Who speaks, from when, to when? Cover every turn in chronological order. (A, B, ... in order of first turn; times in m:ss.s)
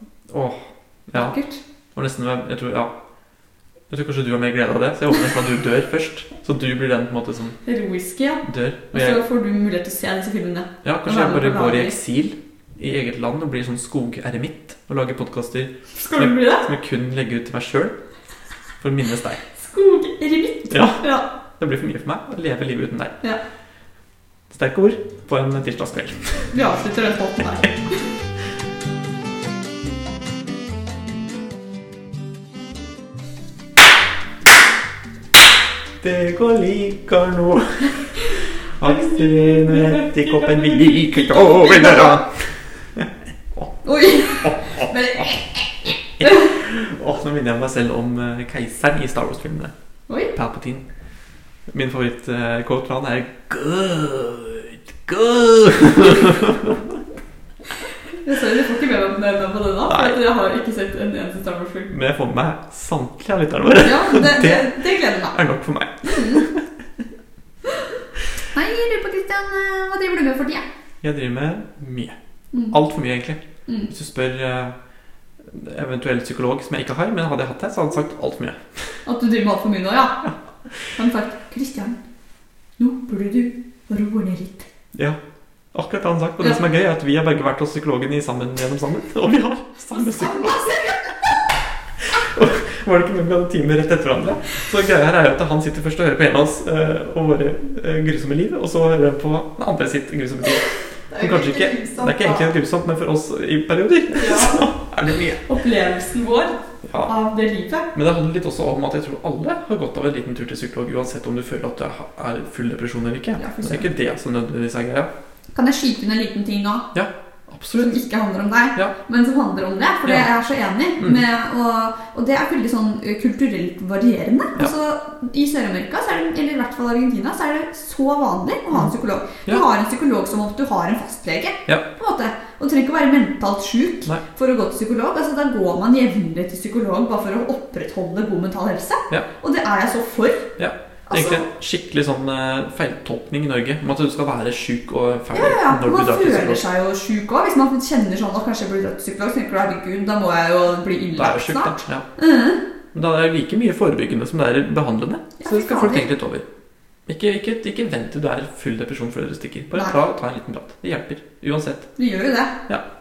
0:00.3-0:01.4 A
0:01.1-0:01.6 B
0:01.9-0:02.9 A
0:03.9-0:07.6 A
0:07.6-0:12.0 B
0:08.4-0:09.2 A
0:10.8-0:18.0 A
0:15.9-0:16.7 B
0:18.8-0:19.4 A
0:19.5-0:21.3 B
0:20.7-0:21.0 A
0:21.6-0:23.2 A
0:24.5-0:26.5 A
0:26.5-0:28.0 B
0:36.0-0:38.2 A
0:38.8-0:43.7 A
0:38.8-0:42.2 B
0:43.8-0:46.5 B
0:44.4-0:45.3 A
0:46.2-0:49.7 A
0:50.1-0:50.3 B
0:50.3-0:50.8 A
0:51.7-0:57.0 A
0:58.1-1:01.9 B
0:59.9-1:00.2 A
1:01.9-1:06.7 A
1:03.8-1:05.4 B
1:06.0-1:06.4 B
1:07.7-1:10.6 B
1:11.0-1:12.2 A
1:12.7-1:14.8 A
1:15.4-1:19.0 A
1:19.0-1:20.2 B
1:21.0-1:22.0 B
1:22.8-1:24.7 B
1:25.7-1:31.0 A
1:29.9-1:31.4 B
1:32.0-1:40.7 A
1:41.1-1:42.5 B
1:41.2-1:45.4 A
1:44.1-1:44.6 B
1:45.4-1:47.9 B
1:46.9-1:47.1 A
1:47.9-1:55.1 A
1:53.4-1:53.9 B
1:55.5-1:56.9 B
1:56.9-1:58.0 A
1:57.7-2:20.6 B
2:20.6-2:26.7 A
2:21.1-2:21.5 B
2:25.3-2:32.6 B
2:31.2-2:32.1 A
2:32.9-2:36.5 A
2:35.4-2:36.1 B
2:37.1-2:41.9 A
2:42.0-2:42.6 B